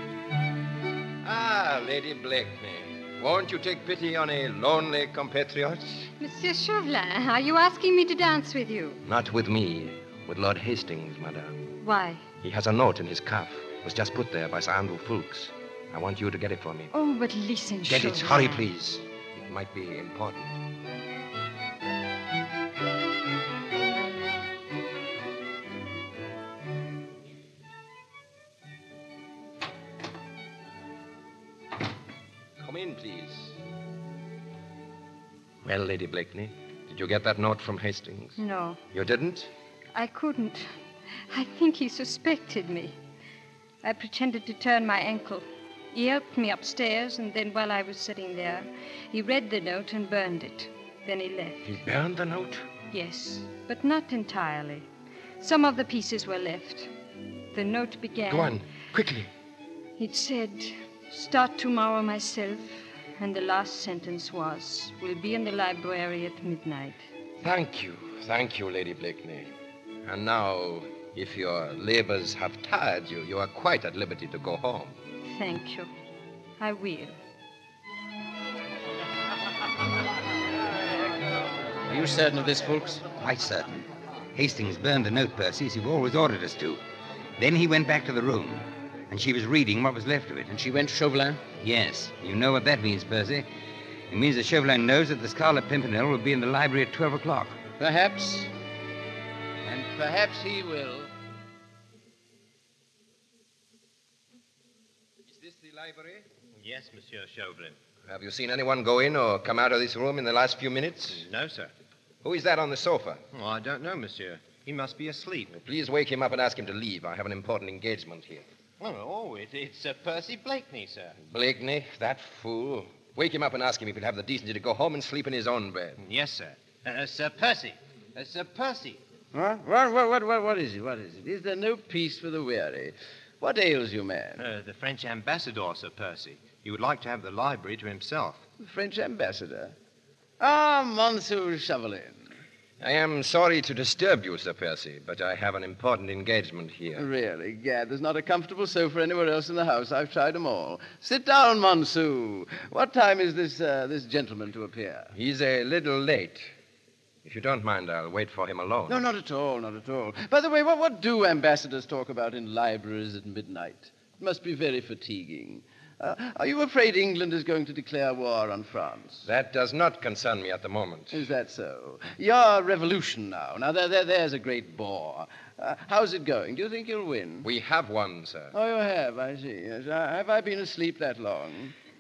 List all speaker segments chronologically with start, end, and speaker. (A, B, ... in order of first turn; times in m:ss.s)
0:01.2-0:06.1 A
0:06.2-0:09.0 B
0:09.1-0:11.7 A
0:11.8-0:12.2 B
0:12.4-0:16.9 A
0:16.9-0:18.7 B
0:17.9-0:20.6 A
0:32.6-0:33.6 A
0:35.6-0:38.4 A
0:38.4-0:38.8 B
0:38.9-0:39.5 A
0:40.0-0:40.8 B
0:41.3-0:43.0 B
0:43.8-0:51.8 B
0:51.7-0:52.7 A
0:52.9-0:54.9 B
0:55.4-0:56.9 B
0:57.5-0:58.6 B
0:58.3-0:59.3 A
1:00.0-1:07.0 B
1:07.4-1:09.5 A
1:10.1-1:15.0 A
1:15.2-1:15.9 B
1:16.6-1:17.2 B
1:21.9-1:23.1 C
1:23.1-1:23.7 D
1:24.4-1:26.8 D
1:27.4-1:30.5 D
1:30.5-1:31.5 C
1:31.5-1:33.5 D
1:34.1-1:37.6 D
1:37.8-1:38.5 C
1:39.6-1:41.1 C
1:45.2-1:46.3 A
1:46.6-1:47.7 E
1:48.1-1:51.3 A
1:51.3-1:51.7 E
1:52.2-1:53.2 A
1:53.4-1:55.5 E
1:55.5-1:58.5 A
1:58.8-2:01.1 E
2:01.3-2:06.0 A
2:06.1-2:07.6 E
2:08.2-2:09.0 E
2:09.3-2:14.5 C
2:14.5-2:18.4 E
2:18.6-2:19.8 C
2:20.4-2:22.3 C
2:22.8-2:27.1 A
2:27.0-2:35.1 C
2:35.1-2:36.5 A
2:37.2-2:39.0 A
2:38.9-2:49.3 C
2:49.2-2:51.3 A
2:51.1-2:57.5 C
2:57.4-2:58.6 A
2:58.5-3:01.7 C